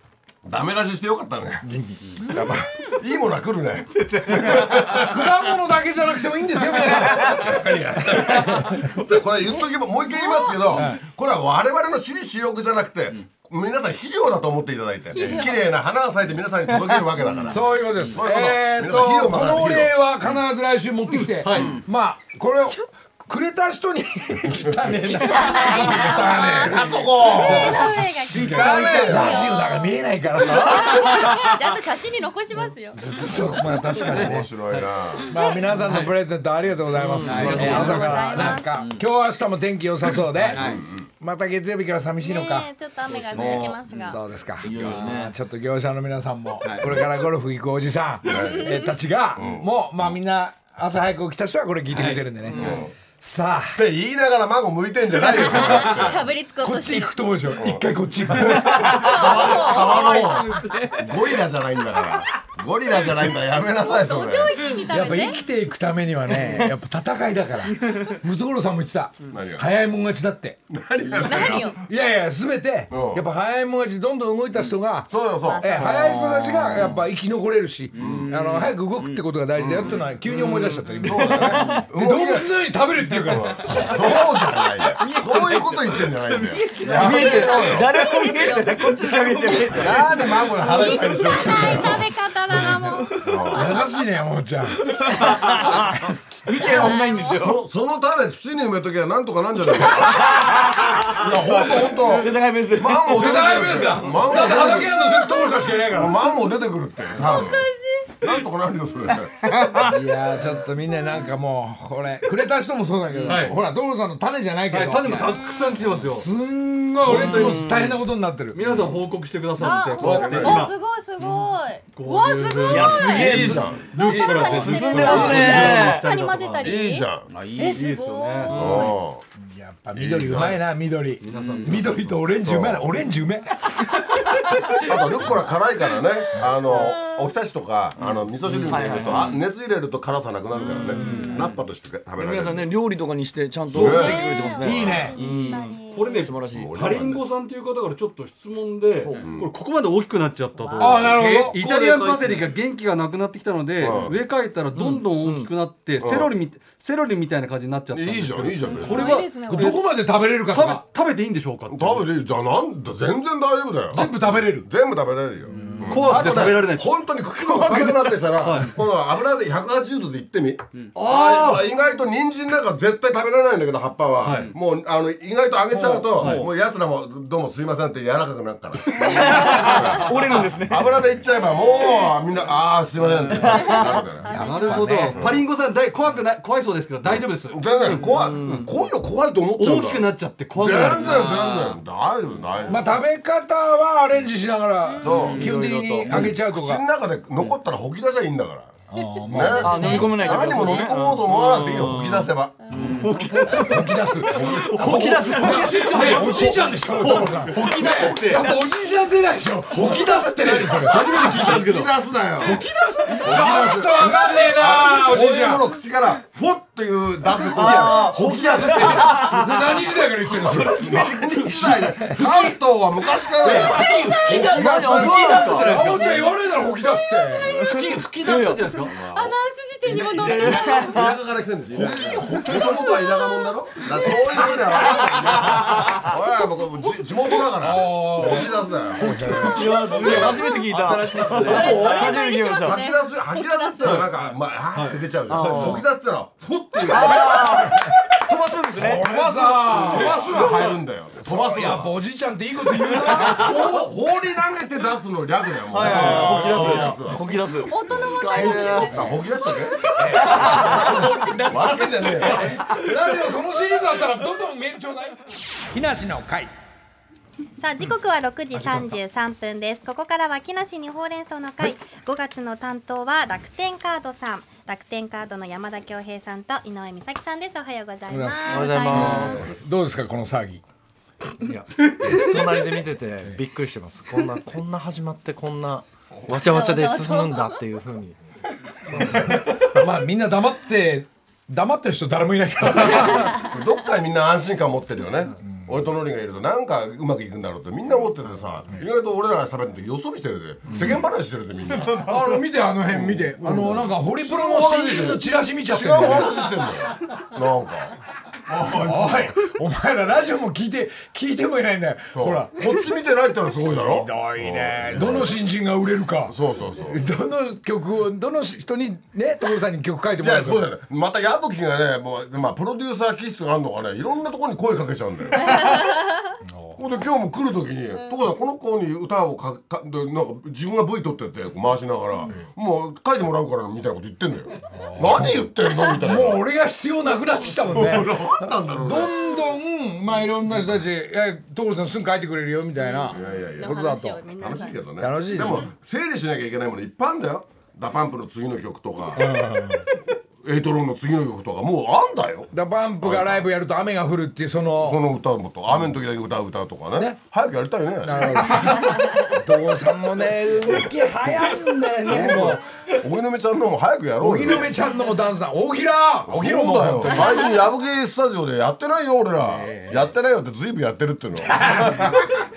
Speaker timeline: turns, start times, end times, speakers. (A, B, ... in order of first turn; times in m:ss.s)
0:00.4-0:05.3 A
0:01.6-0:02.5 B
0:04.7-0:08.9 B
0:07.2-0:20.0 A
0:10.1-0:10.8 C
0:15.1-0:15.6 C
0:17.5-0:31.2 B
0:21.2-0:21.8 D
0:24.5-0:24.8 A
0:25.3-0:33.0 C
0:25.8-0:29.5 A
0:30.4-0:31.0 A
0:32.9-0:34.5 B
0:33.4-0:35.3 A
0:35.3-0:42.7 B
0:36.9-0:38.6 E
0:37.4-0:37.8 A
0:37.5-0:39.0 C
0:40.5-0:41.0 A
0:42.2-0:44.2 C
0:43.3-0:43.8 E
0:43.8-0:52.7 B
0:44.6-0:45.3 E
0:48.2-0:48.7 A
0:48.3-0:48.7 C
0:49.4-0:49.7 A
0:52.5-0:52.9 A
0:53.2-0:53.8 B
0:53.7-0:56.3 A
0:55.1-0:57.2 C
0:56.6-0:59.1 B
0:57.5-1:04.6 A
0:58.7-1:00.6 C
1:03.8-1:05.4 C
1:04.9-1:10.6 B
1:09.3-1:09.7 A
1:10.7-1:11.8 A
1:11.2-1:11.8 C
1:11.8-1:24.3 B
1:12.9-1:13.3 A
1:15.1-1:15.9 A
1:15.4-1:15.8 C
1:15.8-1:16.9 E
1:17.9-1:18.3 A
1:18.0-1:19.2 E
1:19.5-1:20.0 A
1:20.3-1:21.8 E
1:21.0-1:27.9 A
1:25.0-1:31.6 E
1:27.3-1:34.0 C
1:29.5-1:32.1 A
1:31.5-1:31.9 B
1:32.5-1:35.0 B
1:33.2-1:33.8 A
1:35.0-1:37.6 E
1:35.1-1:35.6 C
1:36.5-1:37.4 C
1:36.7-1:44.9 A
1:40.2-1:43.8 E
1:43.1-1:46.2 B
1:45.9-1:47.7 A
1:47.2-1:48.1 C
1:48.2-1:49.4 A
1:49.4-1:50.0 E
1:49.8-1:55.4 B
1:53.1-1:53.5 E
1:53.2-1:53.6 D
1:54.7-1:56.3 D
1:55.3-1:55.8 C
1:56.0-1:58.6 B
1:57.0-1:57.7 D
1:57.0-1:58.0 E
1:58.5-2:00.7 D
1:59.6-2:08.9 C
2:00.0-2:00.7 A
2:01.9-2:06.7 D
2:02.6-2:06.1 E
2:02.8-2:06.0 A
2:06.6-2:07.3 A
2:07.3-2:08.8 D
2:08.5-2:08.9 E
2:08.5-2:09.2 A
2:09.4-2:14.2 B
2:09.9-2:10.6 A
2:11.2-2:12.1 D
2:12.2-2:12.9 A
2:14.8-2:22.7 A
2:16.7-2:17.3 C
2:18.5-2:18.9 D
2:18.6-2:19.4 E
2:20.9-2:21.4 D
2:21.0-2:21.5 C
2:22.2-2:27.2 E
2:23.7-2:25.0 A
2:23.8-2:26.3 C
2:24.6-2:25.2 B
2:25.4-2:42.1 D
2:26.5-2:27.2 A
2:29.2-2:29.5 A
2:30.8-2:31.6 B
2:31.6-2:32.4 E
2:33.8-2:34.2 A
2:34.7-2:35.5 E
2:36.0-2:36.3 A
2:37.9-2:39.2 A
2:38.6-2:39.8 C
2:39.5-2:40.8 B
2:41.7-3:04.3 A
2:43.9-2:44.7 B
2:45.5-2:46.4 B
2:45.6-2:46.9 D
2:47.4-2:48.8 D
2:50.9-2:51.6 D
2:54.2-2:54.5 D
2:55.8-2:56.5 D
2:58.9-3:01.0 E
3:03.3-3:04.0 E
3:03.4-3:05.1 C
3:04.2-3:05.2 B
3:04.3-3:08.7 D
3:05.1-3:05.4 A
3:07.5-3:12.9 A
3:07.8-3:08.7 E
3:09.6-3:11.5 D
3:10.6-3:11.1 B
3:11.2-3:11.7 E
3:12.7-3:16.8 B
3:14.8-3:15.3 C
3:15.0-3:22.6 A
3:15.4-3:16.3 E
3:18.9-3:20.1 B
3:19.5-3:23.7 E
3:22.9-3:23.8 D
3:23.6-3:31.5 B
3:24.2-3:25.4 A
3:24.5-3:28.6 D
3:29.7-3:33.3 D
3:30.7-3:32.6 A
3:32.4-3:35.7 B
3:33.2-3:39.3 A
3:37.5-3:39.5 E
3:37.6-3:39.3 D
3:37.8-3:42.6 B
3:40.4-3:45.8 A
3:43.4-3:48.8 B
3:43.5-3:46.0 E
3:43.7-3:44.2 C
3:45.5-3:46.2 D
3:47.4-3:48.9 E
3:48.5-3:48.9 D
3:49.0-3:50.9 C
3:49.9-3:51.2 E
3:49.9-4:00.3 A
3:51.8-3:52.8 B
3:52.8-3:53.5 C
3:55.5-3:56.1 E
3:57.6-3:59.8 B
3:59.0-4:01.5 D
3:59.4-4:02.8 E
3:59.7-4:00.6 C
4:01.3-4:03.9 C
4:01.5-4:07.7 A
4:04.7-4:05.7 D
4:05.3-4:05.8 E
4:06.8-4:10.5 E
4:08.8-4:13.8 B
4:08.8-4:11.9 A
4:12.9-4:13.5 E
4:13.1-4:17.2 A
4:15.7-4:19.2 E
4:15.8-4:16.9 B
4:16.1-4:16.9 D
4:17.6-4:19.8 C
4:17.9-4:22.5 A
4:20.0-4:20.9 B
4:20.1-4:22.5 E
4:22.3-4:26.5 B
4:27.6-4:39.5 C
4:38.1-4:40.6 B
4:38.4-4:39.6 F
4:41.4-4:48.2 F
4:46.3-4:47.6 C
4:48.9-4:53.4 B
4:52.8-5:09.4 A
5:02.0-5:06.4 B
5:08.7-5:12.8 B
5:12.1-5:15.4 A
5:13.7-5:16.4 B
5:16.2-5:17.0 A
5:16.9-5:20.7 B
5:20.2-5:25.8 A
5:25.4-5:26.3 C
5:26.4-5:26.8 B
5:26.8-5:36.4 A
5:34.7-5:44.2 B
5:37.6-5:39.3 A
5:42.8-5:44.8 C
5:43.1-5:49.3 A
5:45.0-5:45.7 B
5:49.1-5:49.8 B
5:50.4-5:53.5 A
5:52.5-5:55.0 B
5:54.8-5:59.0 A
5:58.0-6:02.6 B
6:02.0-6:04.7 A
6:04.2-6:07.5 B
6:06.3-6:12.3 A
6:09.5-6:10.1 B
6:11.5-6:12.1 B